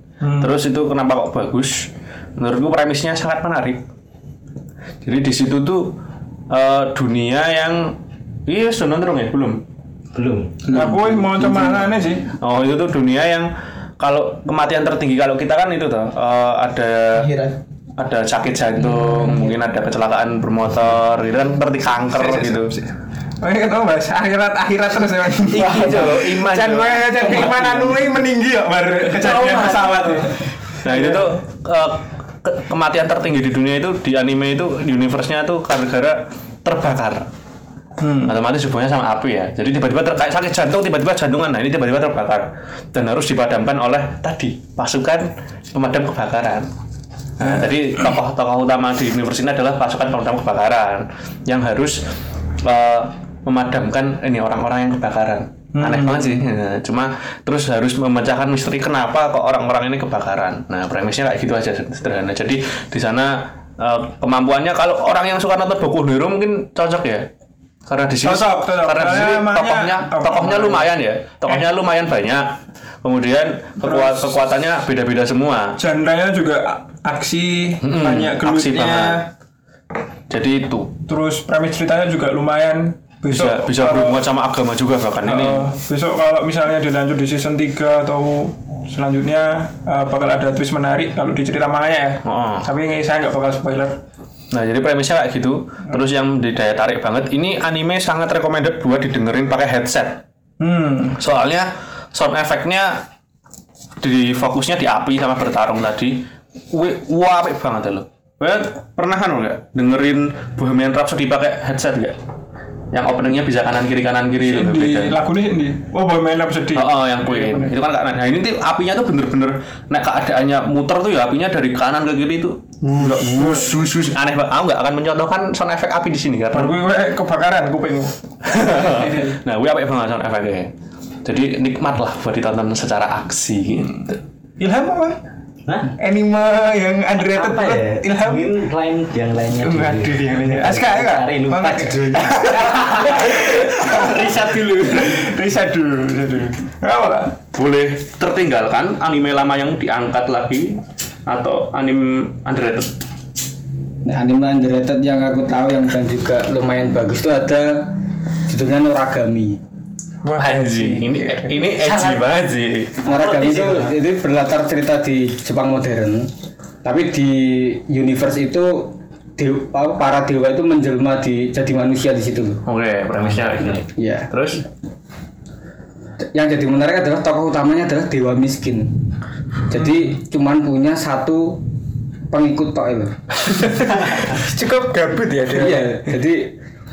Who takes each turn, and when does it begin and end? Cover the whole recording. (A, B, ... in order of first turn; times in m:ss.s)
0:00.2-0:00.5 A
0:00.4-0:03.8 B
0:05.0-0:05.9 B
0:06.5-0:08.0 B
0:08.5-0:09.6 B
0:10.1-0:10.6 C
0:10.6-0:12.3 A
0:10.7-0:11.6 B
0:12.4-0:13.5 B
0:14.0-0:17.3 B
0:17.1-0:17.6 D
0:18.0-0:22.7 B
0:22.1-0:31.3 A
0:25.5-0:27.7 B
0:25.5-0:26.2 D
0:27.2-0:27.8 D
0:29.1-0:30.3 D
0:30.8-0:37.3 B
0:38.0-0:38.3 A
0:38.2-0:46.7 B
0:47.4-0:52.0 B
0:52.6-1:07.2 B
0:55.7-0:56.5 A
1:07.9-1:15.8 B
1:08.2-1:10.9 A
1:13.8-1:14.4 A
1:15.8-1:19.3 A
1:17.8-1:19.2 B
1:20.3-1:20.9 B
1:21.1-1:24.2 A
1:23.3-1:25.7 B
1:25.2-1:34.0 A
1:32.2-1:32.7 B
1:34.5-1:40.2 B
1:40.6-1:41.2 A
1:41.2-1:43.0 B
1:44.0-1:52.2 B
1:52.9-1:55.2 B
1:54.4-1:57.7 A
1:56.7-2:06.8 B
2:02.8-2:03.8 A
2:06.5-2:08.1 A
2:08.4-2:10.7 B
2:11.2-2:14.2 B
2:14.6-2:15.2 A
2:15.6-2:15.9 C
2:16.0-2:18.6 A
2:17.2-2:24.9 C
2:19.6-2:27.4 A
2:27.5-2:32.9 B
2:34.0-2:39.6 E
2:40.2-2:41.8 A
2:40.4-2:43.0 B
2:43.0-2:44.0 C
2:43.0-2:46.3 E
2:46.8-2:52.6 E
2:52.6-2:54.6 B
2:54.0-2:54.3 E
2:56.3-2:59.0 E
2:59.7-3:01.6 E
3:02.3-3:03.8 E
3:03.6-3:06.1 A
3:05.5-3:06.6 E